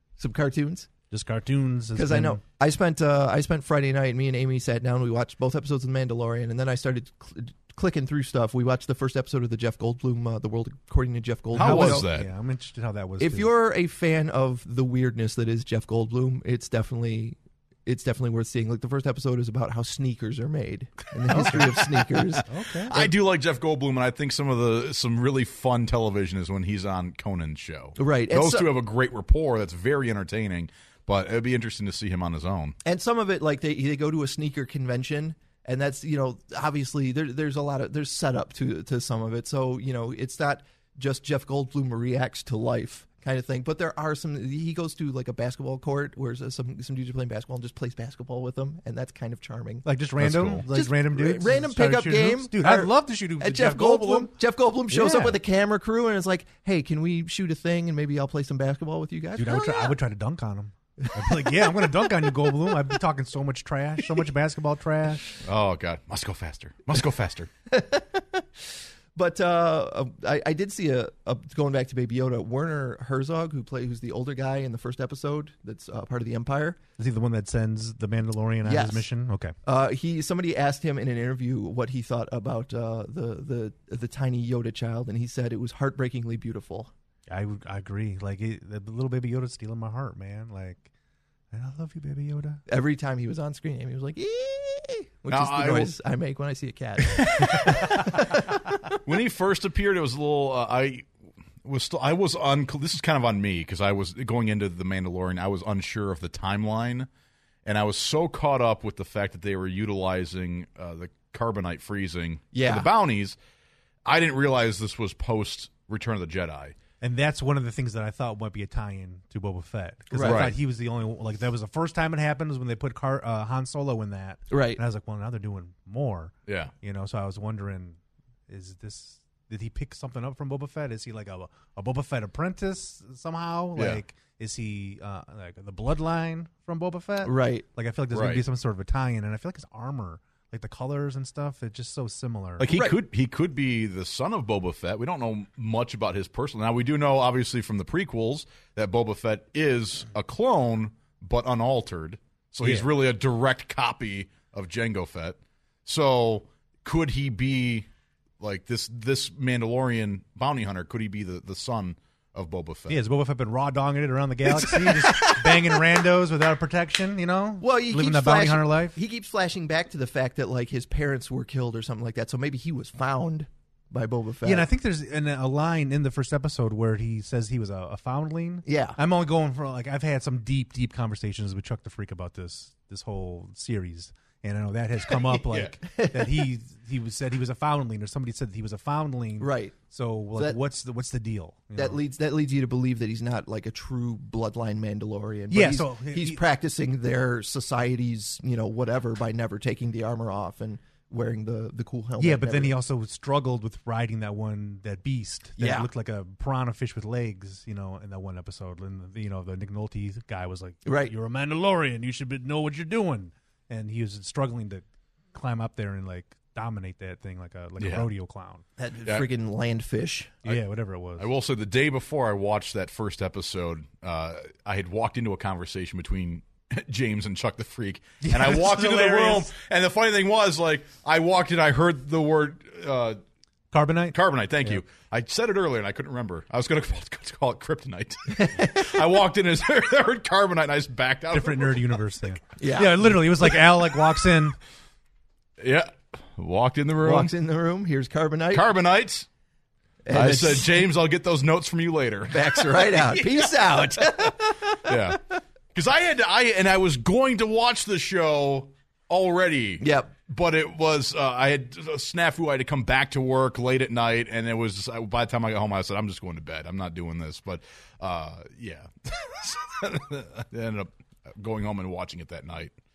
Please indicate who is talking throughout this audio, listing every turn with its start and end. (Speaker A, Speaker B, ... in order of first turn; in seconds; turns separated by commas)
Speaker A: 0.2-0.9, Speaker B: 1.1-2.4, Speaker A: 1.9-12.1, Speaker C: 11.6-12.3, Speaker B: 11.6-13.5, Speaker A: 13.2-23.1, Speaker B: 21.3-21.8, Speaker B: 22.5-23.0, Speaker C: 22.9-32.8, Speaker A: 28.0-28.7, Speaker A: 32.9-49.9, Speaker B: 49.9-54.3, Speaker C: 50.2-50.6, Speaker A: 50.7-60.0, Speaker B: 54.9-55.4, Speaker B: 59.4-65.2, Speaker A: 61.1-61.9, Speaker C: 65.4-67.5, Speaker A: 67.7-76.8, Speaker B: 77.0-79.5, Speaker A: 78.6-79.1, Speaker A: 79.7-86.9, Speaker B: 87.3-90.9, Speaker B: 91.5-92.6, Speaker A: 92.7-99.0, Speaker C: 95.3-95.9, Speaker C: 97.2-97.7, Speaker C: 99.0-101.1, Speaker C: 101.6-107.1, Speaker C: 107.7-113.4, Speaker A: 112.5-112.9, Speaker C: 114.0-116.8, Speaker B: 117.0-128.0, Speaker A: 120.1-120.5, Speaker C: 120.2-120.5, Speaker A: 124.5-124.8, Speaker C: 126.5-126.7, Speaker B: 128.5-142.7, Speaker C: 133.8-134.0, Speaker A: 137.2-137.7, Speaker C: 138.1-138.4, Speaker C: 142.6-157.9, Speaker A: 142.7-143.0, Speaker B: 152.6-152.9, Speaker C: 158.4-163.0, Speaker B: 162.9-169.0, Speaker A: 164.8-165.5, Speaker A: 167.6-174.7, Speaker B: 174.4-192.0, Speaker A: 178.7-179.0, Speaker A: 185.8-186.5, Speaker A: 189.4-189.8, Speaker A: 191.8-202.8, Speaker B: 195.5-196.4, Speaker B: 202.2-218.6, Speaker A: 205.6-205.9, Speaker A: 210.8-211.1, Speaker C: 217.8-218.1, Speaker A: 218.8-220.4, Speaker B: 220.4-221.3, Speaker C: 221.2-233.2, Speaker B: 228.2-229.5, Speaker B: 233.7-234.8, Speaker C: 234.1-242.0, Speaker A: 238.3-239.0, Speaker B: 241.3-244.6, Speaker A: 242.6-243.5, Speaker C: 245.6-247.3, Speaker A: 247.0-248.7, Speaker C: 248.5-249.3, Speaker A: 250.1-250.9, Speaker C: 250.1-254.1, Speaker A: 252.3-255.2, Speaker C: 254.9-255.2, Speaker C: 255.8-272.8, Speaker A: 259.8-260.1